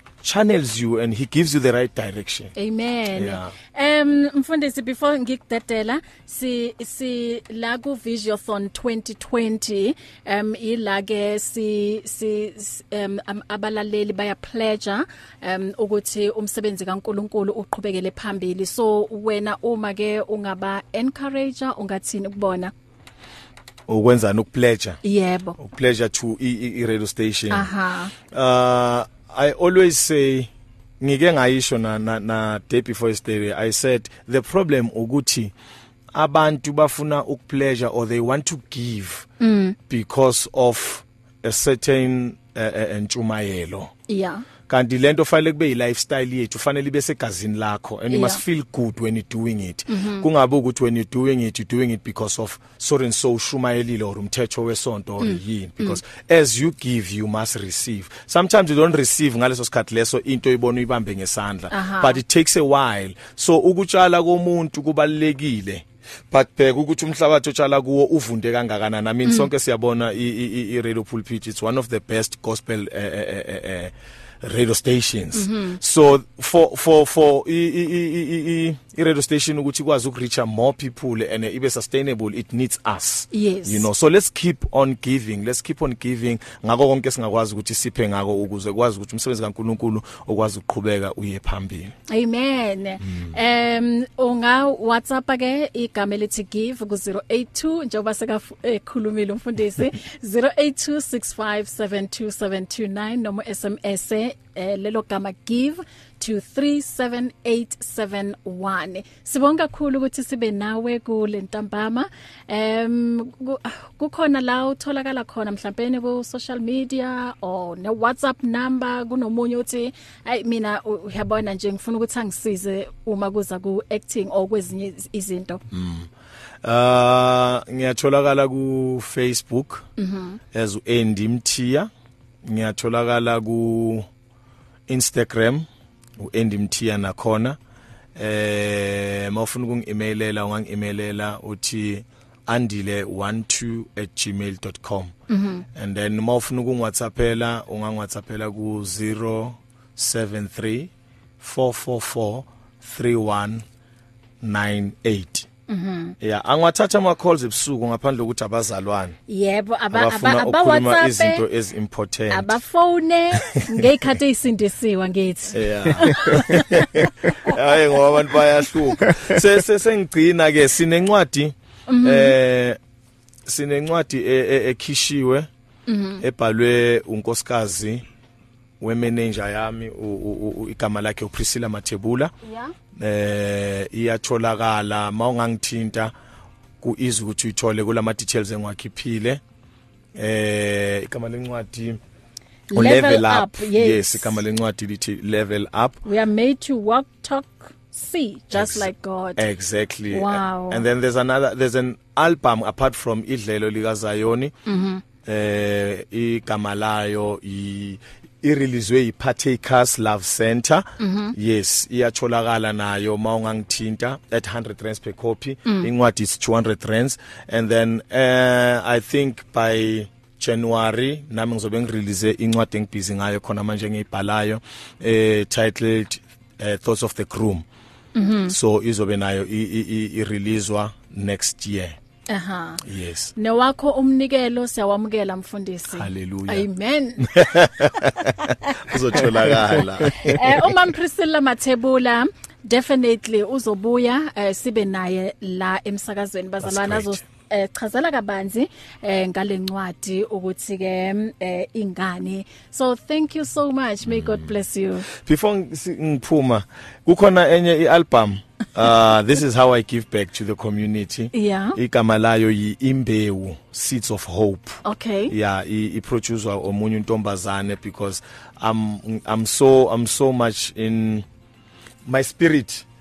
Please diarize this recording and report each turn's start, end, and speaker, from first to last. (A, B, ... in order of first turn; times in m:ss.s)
0:00.2-0:02.5 A
0:02.6-0:22.7 B
0:03.1-0:03.5 A
0:23.9-0:25.0 A
0:25.0-0:25.6 B
0:25.6-0:35.5 A
0:27.5-0:28.1 B
0:36.1-0:39.3 A
0:39.4-0:39.8 B
0:39.9-0:43.9 A
0:44.1-0:44.4 B
0:44.7-1:31.9 A
0:48.1-0:48.4 B
0:49.9-0:50.3 B
0:55.2-0:56.0 B
1:01.7-1:02.2 B
1:15.3-1:15.8 B
1:23.3-1:23.9 B
1:32.1-2:05.6 B
1:33.1-1:33.3 A
2:05.7-2:06.1 A
2:06.6-2:09.9 A
2:10.0-2:10.4 B
2:10.5-2:11.9 A
2:12.4-2:14.1 A
2:14.9-2:15.6 A
2:16.2-2:17.6 A
2:18.1-2:25.1 A
2:25.3-2:25.6 B
2:25.7-2:33.6 A
2:34.4-2:35.5 A
2:35.7-2:36.1 B
2:36.2-2:39.2 A
2:39.3-2:41.4 B
2:39.9-2:42.6 A
2:42.3-2:47.6 B
2:45.5-2:52.8 A
2:51.9-2:52.4 B
2:53.4-2:55.5 A
2:55.9-2:56.2 B
2:56.2-2:58.0 A
2:58.8-3:02.3 A
3:02.4-3:02.7 B
3:03.0-3:06.1 A
3:06.8-3:09.4 A
3:10.1-3:12.0 A
3:12.7-3:14.4 B
3:12.7-3:16.0 A
3:16.0-3:19.4 B
3:18.5-3:24.5 A
3:20.1-3:20.8 B
3:24.6-3:25.0 B
3:25.2-3:47.6 A
3:31.0-3:31.3 B
3:48.1-3:48.5 B
3:48.5-3:52.0 A
3:52.3-3:52.8 B
3:52.8-3:53.3 A
3:53.4-4:15.1 B
3:55.9-3:56.7 A
3:57.2-4:00.7 A
4:06.6-4:07.2 A
4:14.0-4:14.5 A
4:15.1-4:31.2 A
4:21.3-4:21.8 B
4:24.8-4:25.3 B
4:32.0-4:32.8 A